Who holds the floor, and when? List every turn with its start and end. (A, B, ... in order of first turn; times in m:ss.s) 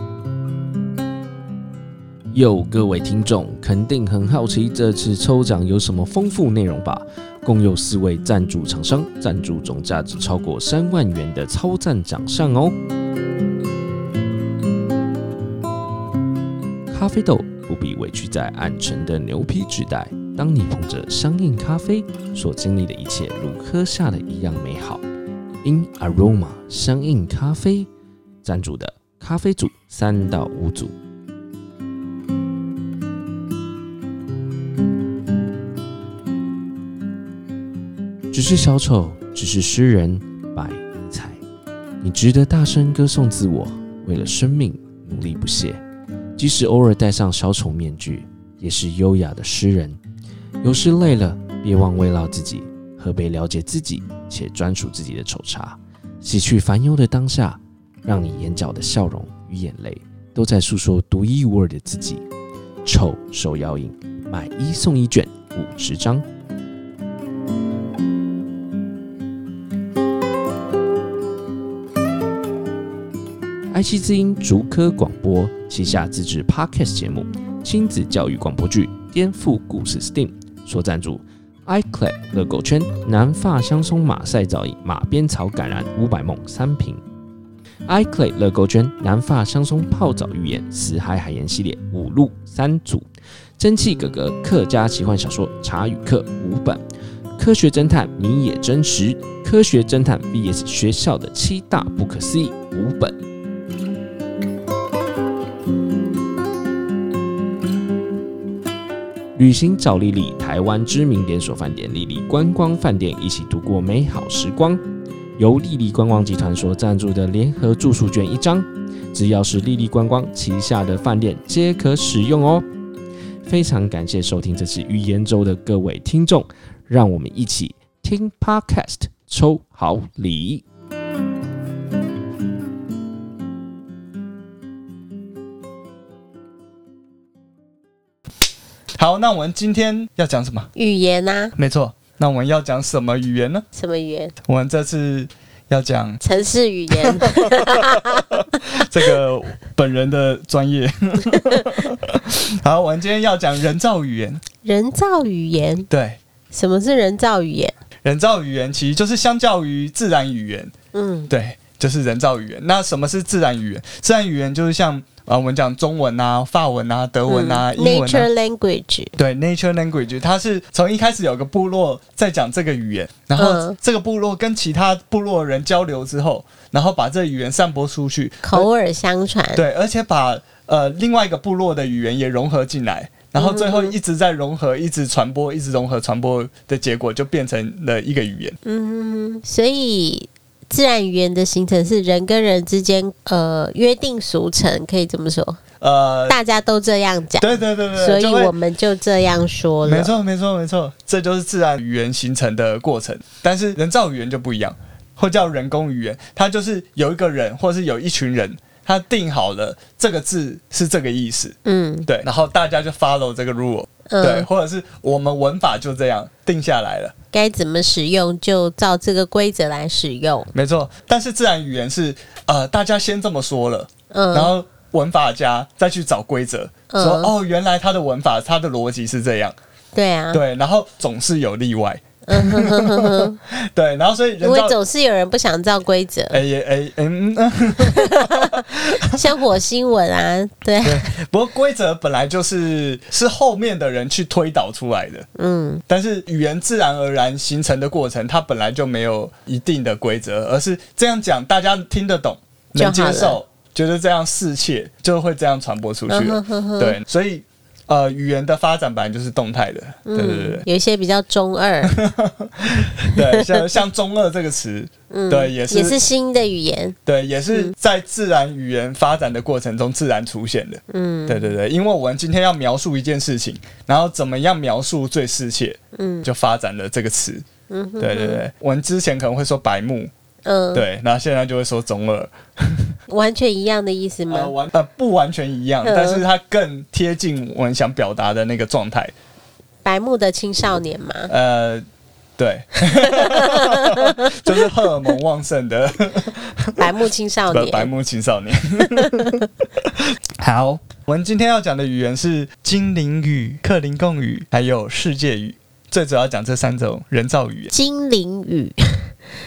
0:02.3-0:12.8 A
0:16.9-0:25.0 A
0:25.6-0:27.9 A
0:28.4-0:31.0 A
0:38.3-0:41.4 A
0:42.0-0:45.8 A
0:46.4-0:50.0 A
0:50.6-1:02.2 A
1:02.8-1:06.2 A
1:13.7-1:27.0 A
1:27.9-1:33.1 A
1:33.6-1:36.8 A
1:37.4-1:43.2 A
1:49.4-1:54.8 A
1:55.4-2:02.7 A
2:03.5-2:10.6 A
2:19.0-2:20.7 B
2:20.8-2:21.6 C
2:21.6-2:23.7 B
2:23.7-2:24.3 C
2:24.4-2:26.2 B
2:26.2-2:28.4 C
2:27.0-2:34.4 B
2:34.6-2:35.9 C
2:35.9-2:36.2 B
2:36.5-2:37.8 C
2:38.0-2:40.7 B
2:40.9-2:41.3 C
2:41.3-2:48.3 B
2:47.3-2:49.1 C
2:49.2-2:58.7 B
2:53.4-2:53.8 C
2:58.4-2:59.6 C
2:59.5-3:08.6 B
3:03.4-3:04.0 C
3:08.6-3:15.6 C
3:15.8-3:16.4 B
3:16.3-3:20.2 C
3:17.4-3:18.5 B
3:19.8-3:31.6 B
3:31.6-3:32.1 C
3:32.1-3:37.1 B
3:34.1-3:34.5 C
3:37.3-3:40.5 C
3:40.5-3:49.6 B
3:44.1-3:44.5 C
3:46.9-3:47.3 C
3:50.0-3:50.4 C
3:50.3-3:54.8 B
3:52.3-3:53.4 C
3:54.4-3:56.4 C
3:56.3-3:59.1 B
3:57.8-4:01.1 C
4:00.8-4:05.3 B
4:05.4-4:05.8 C
4:05.9-4:20.6 B
4:12.8-4:13.4 C
4:16.1-4:17.0 C
4:20.1-4:22.0 C
4:21.8-4:26.0 B
4:23.1-4:23.6 C
4:25.1-4:27.0 C
4:27.1-4:37.4 B
4:30.9-4:31.5 C
4:36.0-4:36.3 C
4:37.7-4:38.4 C
4:38.0-4:40.1 B
4:40.4-4:40.8 C
4:40.7-4:43.0 B
4:43.1-4:44.5 C
4:44.3-4:49.1 B
4:45.8-4:46.2 C
4:49.8-4:51.3 C
4:51.3-4:51.8 B
4:52.4-4:56.9 B
4:53.0-4:54.6 C
4:56.8-4:57.9 C
4:57.5-5:07.7 B
4:59.0-4:59.4 C
5:07.7-5:09.1 C